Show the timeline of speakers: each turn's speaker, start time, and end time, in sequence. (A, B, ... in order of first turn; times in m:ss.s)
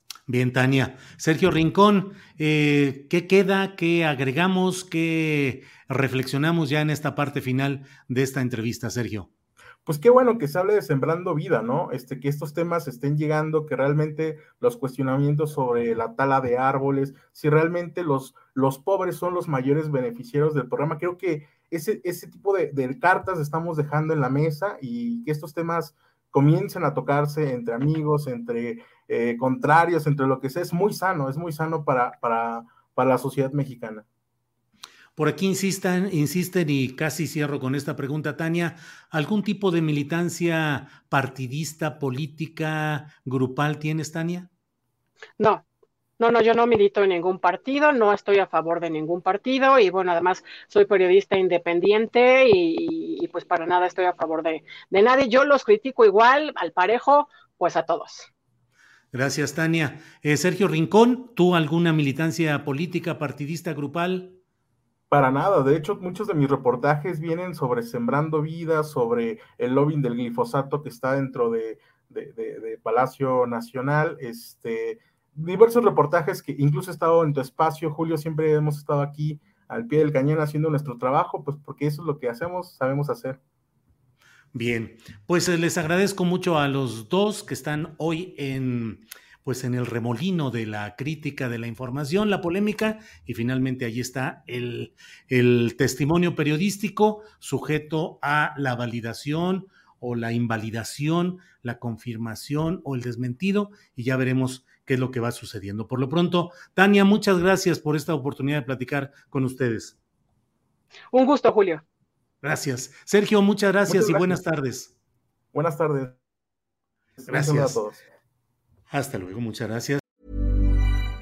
0:00.3-0:09.3 A
0:09.8-0:34.0 B
0:35.2-0:44.5 A
0:45.4-0:45.6 C
0:46.2-0:58.3 C
0:59.1-1:04.4 A
1:05.1-1:23.4 B
1:24.5-1:50.0 A
1:51.1-1:51.8 C
1:52.4-1:54.9 A
1:53.9-1:54.4 B
1:55.5-1:56.2 B
1:57.2-1:58.0 B
1:57.3-1:57.8 A
1:58.9-2:00.0 A